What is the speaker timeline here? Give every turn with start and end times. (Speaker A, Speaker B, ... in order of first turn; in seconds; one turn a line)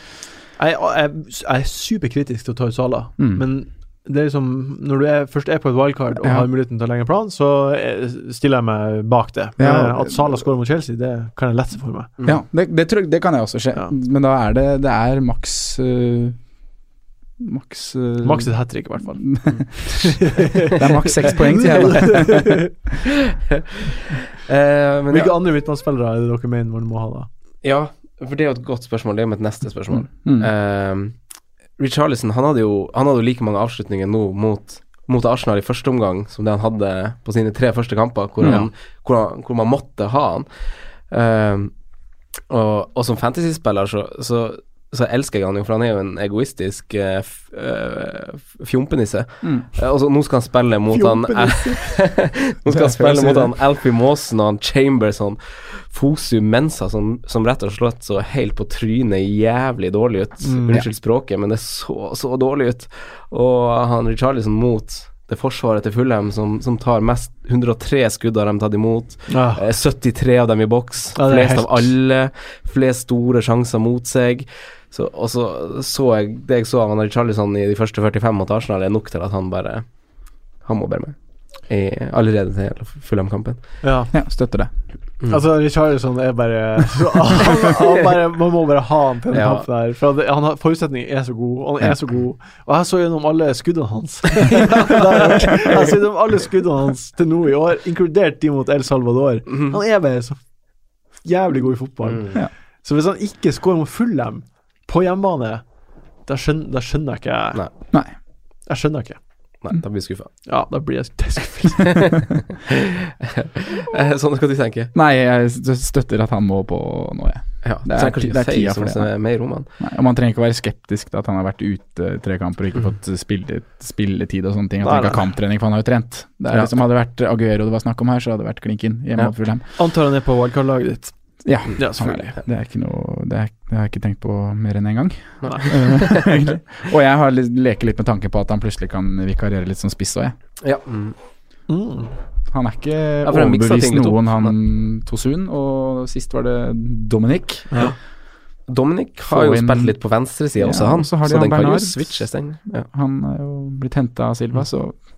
Speaker A: 0.6-12.1
Speaker B: 3.2-3.5
Speaker B: 6.2-6.5
Speaker B: 9.6-10.5
Speaker C: 12.2-12.4
Speaker B: 12.2-16.4
Speaker B: 17.4-22.7
Speaker A: 18.2-19.3
Speaker A: 19.9-22.7
Speaker C: 23.5-25.3
Speaker A: 25.1-27.3
Speaker C: 27.6-31.1
Speaker B: 30.1-30.5
Speaker C: 31.8-40.5
Speaker B: 38.4-38.7
Speaker C: 41.1-41.7
Speaker C: 42.5-79.8
Speaker A: 50.9-51.9
Speaker A: 52.7-53.5
Speaker A: 60.4-60.7
Speaker A: 69.3-69.6
Speaker A: 71.2-71.9
Speaker C: 80.6-81.1
Speaker C: 81.7-83.6
Speaker A: 83.8-84.1
Speaker B: 84.1-84.7
Speaker A: 85.3-100.4
Speaker C: 89.3-89.7
Speaker C: 94.5-95.5
Speaker C: 99.5-99.8
Speaker A: 101.2-105.6
Speaker C: 102.1-102.4
Speaker A: 106.3-107.8
Speaker A: 108.7-109.2
Speaker C: 109.6-110.3
Speaker A: 110.5-112.1
Speaker C: 112.0-112.3
Speaker C: 113.3-114.9
Speaker B: 114.9-119.1
Speaker C: 117.6-119.7
Speaker B: 119.8-129.7
Speaker A: 124.8-125.3
Speaker C: 126.5-126.8
Speaker A: 129.8-131.1
Speaker B: 131.4-140.3
Speaker A: 131.7-132.3
Speaker C: 135.4-136.5
Speaker C: 140.6-141.2
Speaker A: 141.7-142.1
Speaker B: 142.5-147.8
Speaker C: 143.2-144.6
Speaker C: 148.7-152.9
Speaker B: 149.3-152.3
Speaker B: 152.8-155.0